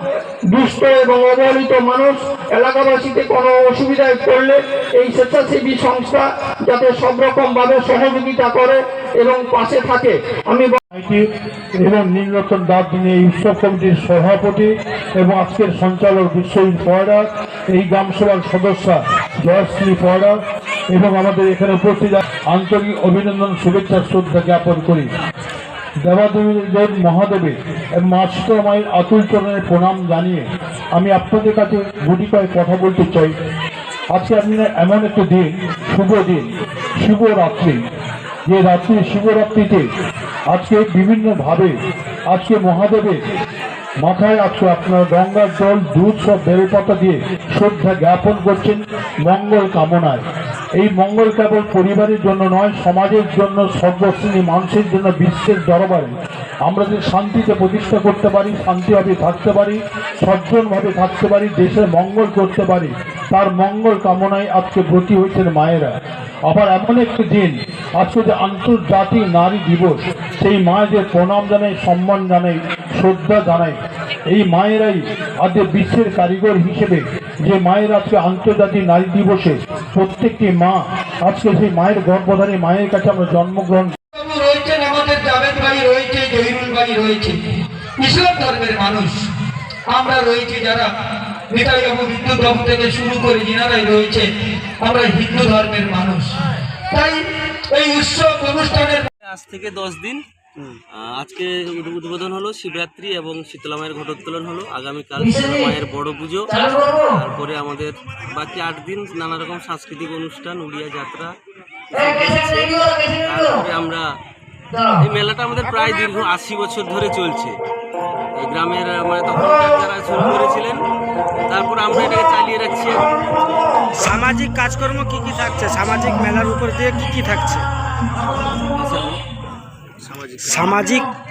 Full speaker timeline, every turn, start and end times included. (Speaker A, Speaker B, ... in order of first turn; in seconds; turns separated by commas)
Speaker A: 0.5-10.8, Speaker B: 10.9-11.3, Speaker B: 11.8-20.4, Speaker B: 20.9-25.1, Speaker B: 26.0-33.3, Speaker B: 34.1-36.5, Speaker B: 37.0-37.8, Speaker B: 38.5-39.9, Speaker B: 40.5-41.8, Speaker B: 42.3-43.2, Speaker B: 44.0-50.2, Speaker B: 50.7-65.9, Speaker B: 66.5-84.0, Speaker C: 84.2-87.3, Speaker C: 88.0-89.2, Speaker C: 89.9-90.8, Speaker C: 91.5-94.3, Speaker C: 94.9-96.3, Speaker C: 97.0-99.1, Speaker D: 99.2-100.2, Speaker D: 100.9-111.3, Speaker D: 111.9-114.1, Speaker D: 114.8-117.5, Speaker D: 118.4-120.8, Speaker D: 121.5-123.3, Speaker E: 124.0-127.6, Speaker D: 128.5-129.2, Speaker D: 130.0-131.0, Speaker E: 130.7-131.0